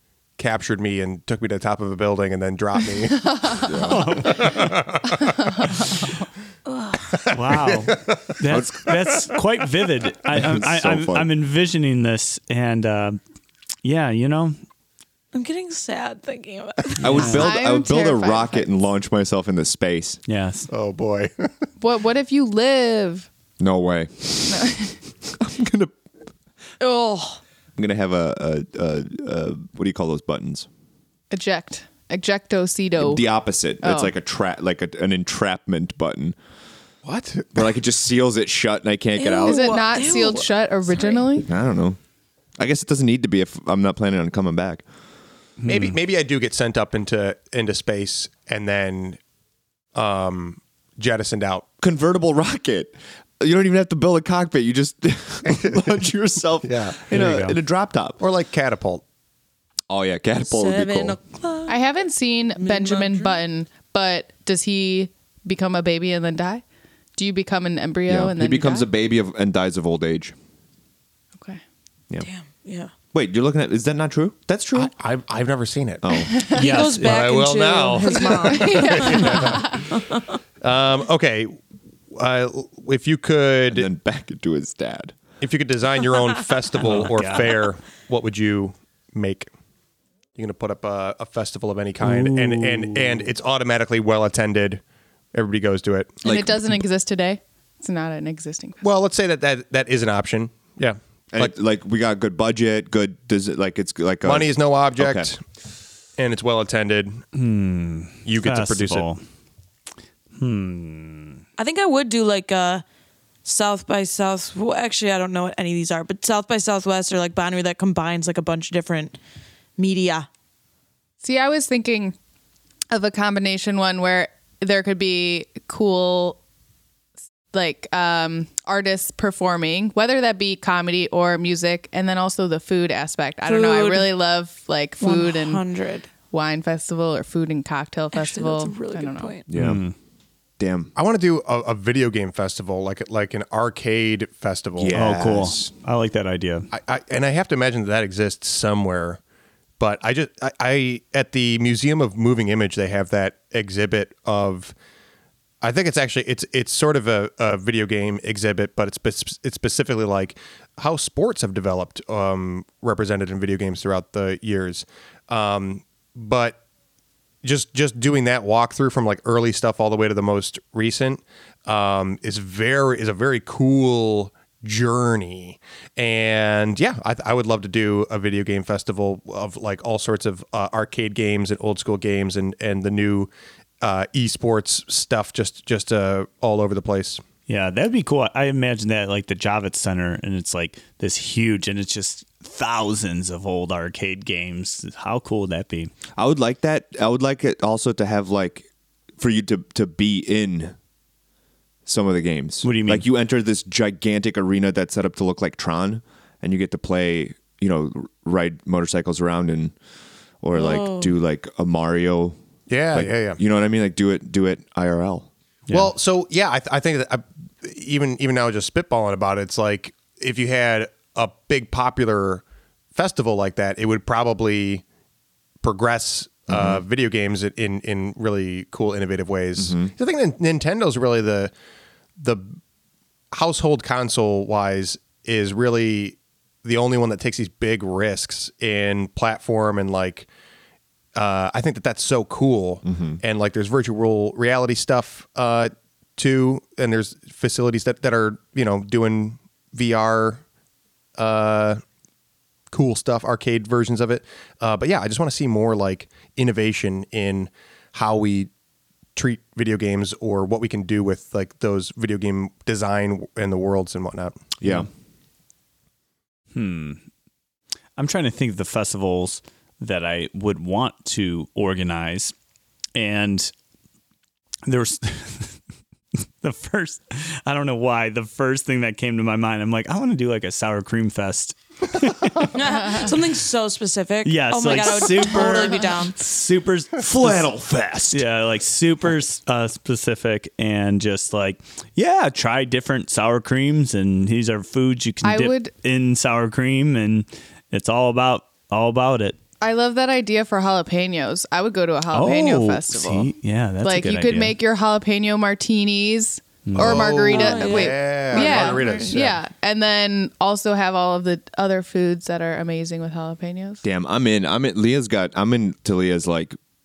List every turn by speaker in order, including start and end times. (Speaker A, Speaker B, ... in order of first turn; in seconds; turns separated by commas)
Speaker A: 0.4-5.8, Speaker B: 3.6-4.2, Speaker C: 3.8-4.8, Speaker D: 6.7-7.2, Speaker A: 7.1-9.2, Speaker C: 7.3-13.2, Speaker B: 8.5-8.9, Speaker B: 10.3-11.3, Speaker C: 13.8-14.6, Speaker D: 15.3-17.3, Speaker B: 17.0-20.2, Speaker C: 17.0-17.5, Speaker E: 17.1-18.7, Speaker C: 20.3-20.7, Speaker A: 20.7-21.5, Speaker E: 21.8-23.3, Speaker B: 23.6-25.9, Speaker E: 24.5-24.9, Speaker D: 26.8-27.4, Speaker B: 27.8-30.7, Speaker E: 31.3-33.3, Speaker B: 33.0-36.4, Speaker E: 33.8-34.1, Speaker A: 37.0-37.5, Speaker B: 37.5-39.8, Speaker D: 39.2-41.2, Speaker E: 39.4-41.5, Speaker B: 41.4-42.0, Speaker B: 42.6-44.8, Speaker C: 45.6-46.0, Speaker A: 45.7-49.2, Speaker A: 50.0-51.7, Speaker B: 51.8-58.2, Speaker A: 55.5-55.9, Speaker A: 56.6-57.0, Speaker C: 57.1-57.6, Speaker A: 58.2-59.0, Speaker B: 59.9-61.2, Speaker D: 60.5-61.8, Speaker E: 61.7-66.6, Speaker D: 62.6-63.3, Speaker E: 67.2-68.9, Speaker B: 68.1-70.3, Speaker D: 72.2-72.9, Speaker B: 73.1-74.9, Speaker A: 74.5-76.3, Speaker B: 76.0-77.1, Speaker E: 76.3-76.6, Speaker D: 76.5-80.2, Speaker C: 76.5-77.1, Speaker A: 77.0-79.9, Speaker E: 78.4-79.8, Speaker A: 80.6-81.6, Speaker A: 82.1-83.9, Speaker B: 83.7-85.2, Speaker A: 85.4-89.5, Speaker C: 86.8-87.7, Speaker A: 90.4-94.8, Speaker C: 92.0-93.3, Speaker A: 95.3-96.2, Speaker B: 96.2-96.6, Speaker E: 96.2-98.8, Speaker A: 98.8-101.5, Speaker B: 101.3-105.3, Speaker A: 104.2-105.4, Speaker A: 106.2-107.2, Speaker C: 107.3-109.2, Speaker A: 108.3-109.1, Speaker C: 110.4-111.4, Speaker D: 111.6-112.8, Speaker D: 113.5-119.2, Speaker D: 119.8-120.3, Speaker E: 121.2-122.2, Speaker E: 122.9-126.4, Speaker E: 127.5-135.6, Speaker D: 133.4-134.1, Speaker D: 135.0-136.1, Speaker E: 136.3-139.3, Speaker D: 138.1-139.5, Speaker B: 139.5-139.8, Speaker C: 139.6-139.9, Speaker B: 140.6-140.9, Speaker A: 141.0-145.0, Speaker B: 144.8-145.7, Speaker C: 144.9-146.7, Speaker A: 146.7-149.2, Speaker A: 149.8-154.7, Speaker A: 155.6-166.6, Speaker A: 167.4-187.2, Speaker C: 187.5-195.9, Speaker B: 196.2-198.7, Speaker B: 199.2-200.8, Speaker B: 201.9-209.8, Speaker C: 202.6-203.1, Speaker B: 210.4-212.4, Speaker D: 210.6-211.1, Speaker A: 212.7-213.4, Speaker B: 212.9-215.3, Speaker C: 215.7-215.9, Speaker A: 215.7-222.4, Speaker A: 222.9-224.8, Speaker A: 225.6-231.5, Speaker B: 226.5-226.8, Speaker B: 229.6-229.9, Speaker A: 232.2-232.6, Speaker A: 233.3-240.3, Speaker A: 241.2-250.4, Speaker B: 242.8-243.2, Speaker A: 251.2-251.8, Speaker A: 252.7-258.5, Speaker A: 259.2-264.6, Speaker C: 264.6-264.9, Speaker B: 264.6-264.9, Speaker C: 266.5-267.0, Speaker C: 268.0-272.3, Speaker C: 272.9-273.5, Speaker C: 274.7-275.6, Speaker C: 276.4-283.1, Speaker D: 282.5-286.2, Speaker C: 284.2-287.5, Speaker E: 285.4-285.8, Speaker B: 287.0-288.2, Speaker C: 288.1-299.4, Speaker E: 295.2-295.7, Speaker E: 299.6-313.8, Speaker C: 302.1-304.6, Speaker C: 306.7-307.1, Speaker A: 306.8-309.4, Speaker D: 307.3-309.1, Speaker B: 313.8-316.6